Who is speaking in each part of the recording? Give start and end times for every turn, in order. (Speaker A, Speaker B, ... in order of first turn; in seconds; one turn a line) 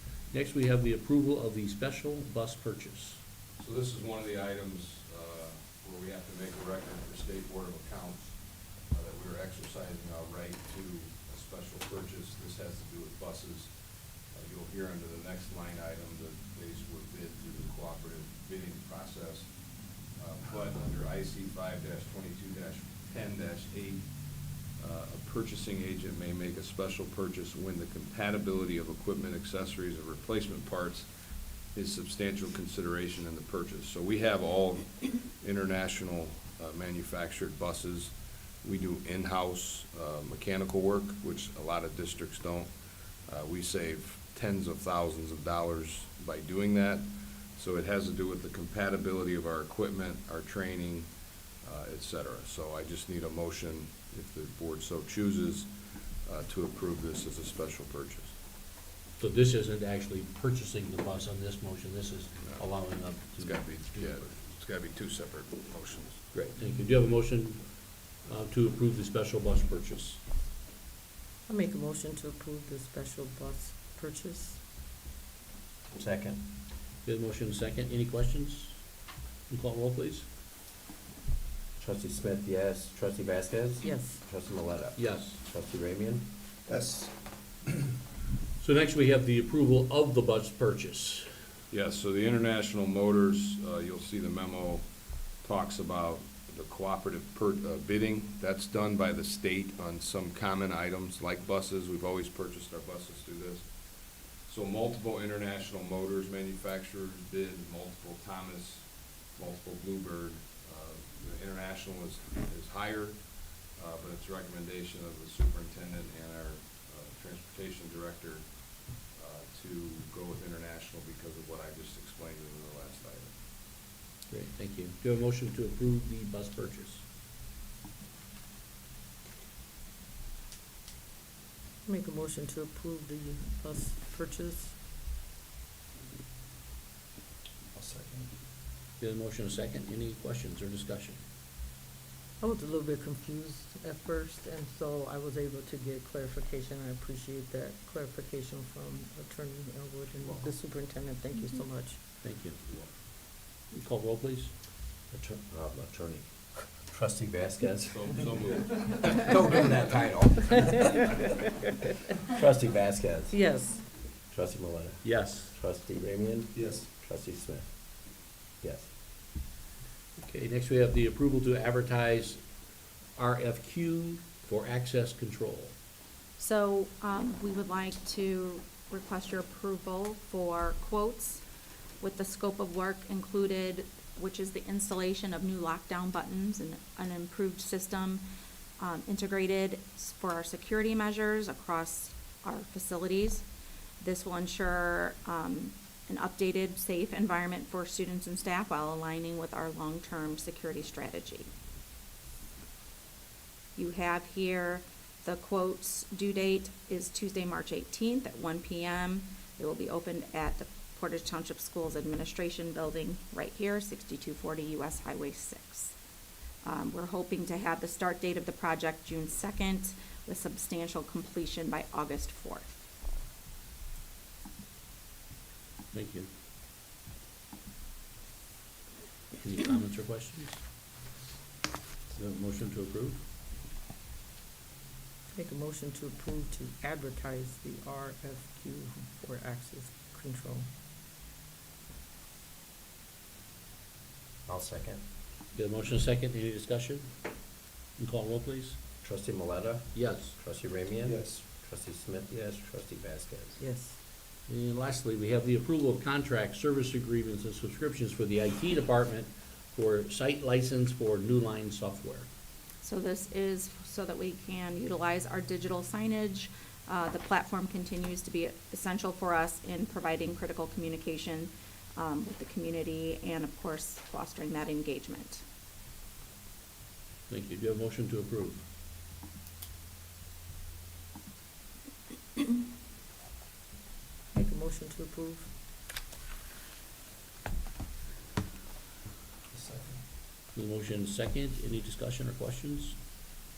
Speaker A: 0.3-3.2
Speaker B: 3.6-13.7
Speaker B: 14.3-19.5
Speaker B: 20.1-24.1
Speaker B: 24.8-31.1
Speaker B: 31.7-42.7
Speaker B: 43.3-51.1
Speaker B: 51.6-55.7
Speaker B: 56.2-58.3
Speaker A: 59.2-64.2
Speaker B: 63.4-66.2
Speaker A: 66.3-67.7
Speaker A: 68.2-70.2
Speaker C: 71.5-74.6
Speaker D: 75.9-76.5
Speaker A: 77.0-78.8
Speaker A: 79.5-80.2
Speaker D: 81.8-86.3
Speaker C: 83.8-84.2
Speaker A: 85.0-85.4
Speaker E: 86.7-87.1
Speaker A: 88.6-91.2
Speaker B: 91.7-94.8
Speaker B: 95.4-103.7
Speaker B: 104.5-113.2
Speaker B: 113.8-123.3
Speaker A: 124.3-127.0
Speaker C: 131.8-134.8
Speaker E: 137.8-138.3
Speaker A: 139.0-141.2
Speaker C: 142.4-152.0
Speaker A: 152.2-152.8
Speaker A: 153.7-154.5
Speaker D: 155.1-158.2
Speaker B: 157.9-159.3
Speaker D: 159.1-161.2
Speaker D: 162.3-163.4
Speaker C: 163.3-163.8
Speaker D: 164.3-167.8
Speaker A: 165.0-165.5
Speaker E: 166.5-166.9
Speaker D: 168.6-168.9
Speaker A: 170.2-172.4
Speaker A: 173.2-175.7
Speaker F: 176.4-181.4
Speaker F: 182.0-188.2
Speaker F: 188.8-193.5
Speaker F: 194.0-201.5
Speaker F: 203.8-215.9
Speaker F: 216.6-222.7
Speaker A: 225.9-226.3
Speaker A: 229.3-230.6
Speaker A: 232.1-233.2
Speaker C: 235.3-240.7
Speaker D: 244.5-245.0
Speaker A: 245.5-247.1
Speaker A: 248.0-248.8
Speaker D: 249.0-253.6
Speaker A: 249.9-250.3
Speaker E: 251.0-251.4
Speaker C: 253.6-254.0
Speaker A: 254.5-262.3
Speaker F: 262.8-275.4
Speaker A: 277.3-278.6
Speaker C: 284.3-285.5
Speaker E: 289.5-290.0
Speaker A: 290.6-292.9